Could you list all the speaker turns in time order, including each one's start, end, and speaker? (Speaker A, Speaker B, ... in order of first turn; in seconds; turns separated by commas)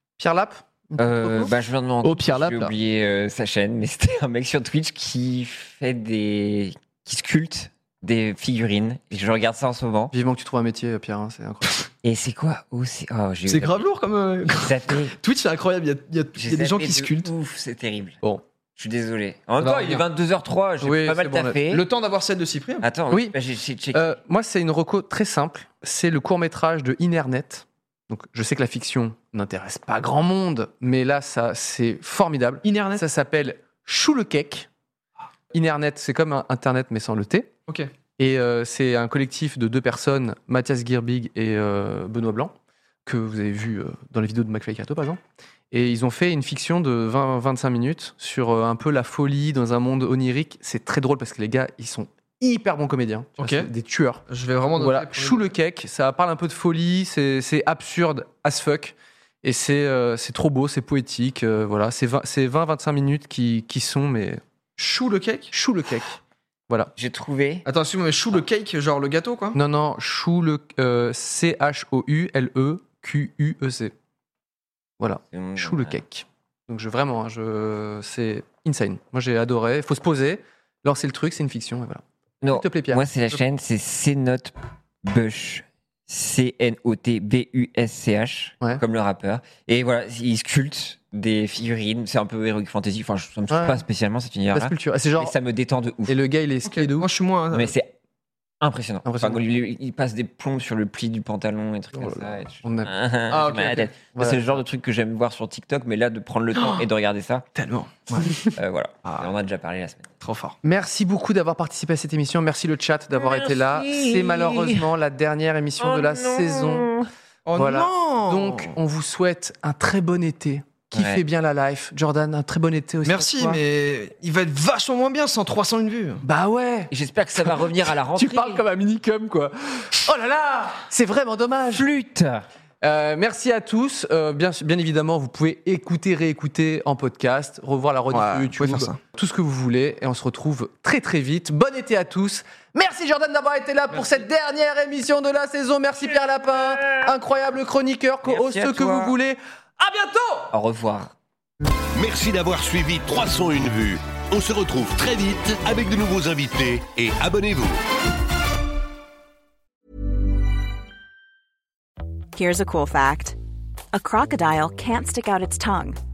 Speaker A: 0.2-1.5, Speaker B: 1.0-10.1, Speaker C: 2.0-2.7, Speaker A: 10.1-11.7, Speaker B: 12.0-13.8, Speaker C: 13.5-17.3, Speaker B: 14.5-15.1, Speaker B: 16.4-18.2, Speaker B: 18.8-21.8, Speaker C: 19.6-20.0, Speaker A: 20.8-21.6, Speaker C: 21.7-22.9, Speaker B: 22.8-24.1, Speaker A: 23.9-34.7, Speaker C: 32.6-33.0, Speaker A: 35.5-37.5, Speaker A: 38.2-42.5, Speaker A: 43.0-45.2, Speaker A: 45.7-54.2, Speaker C: 53.4-53.7, Speaker C: 54.3-55.4, Speaker A: 54.8-64.4, Speaker C: 64.8-65.5, Speaker A: 65.5-66.2, Speaker B: 67.0-67.6, Speaker C: 67.7-69.6, Speaker A: 69.5-73.9, Speaker A: 75.0-83.0, Speaker B: 75.3-76.0, Speaker B: 82.4-96.2, Speaker A: 93.5-93.8, Speaker A: 94.5-95.3, Speaker A: 96.1-97.1, Speaker C: 96.7-97.7, Speaker B: 97.5-97.9, Speaker B: 98.6-107.4, Speaker A: 99.0-99.4, Speaker A: 101.9-102.9, Speaker C: 103.3-103.9, Speaker A: 104.1-104.6, Speaker C: 106.6-106.9, Speaker C: 107.5-108.4, Speaker B: 108.1-110.1, Speaker C: 109.0-109.3, Speaker C: 110.2-110.6, Speaker A: 110.6-117.0, Speaker B: 113.1-114.9, Speaker B: 115.8-117.1, Speaker C: 117.5-118.7, Speaker A: 117.5-123.6, Speaker B: 120.9-121.2, Speaker C: 123.0-126.2, Speaker A: 126.2-126.9, Speaker B: 126.9-128.6, Speaker A: 127.4-131.9, Speaker B: 131.7-132.5, Speaker A: 132.8-150.5, Speaker C: 138.1-139.0, Speaker B: 146.8-147.1, Speaker B: 148.2-149.2, Speaker B: 150.5-151.1, Speaker D: 151.9-157.8, Speaker E: 162.3-163.3, Speaker E: 163.9-166.0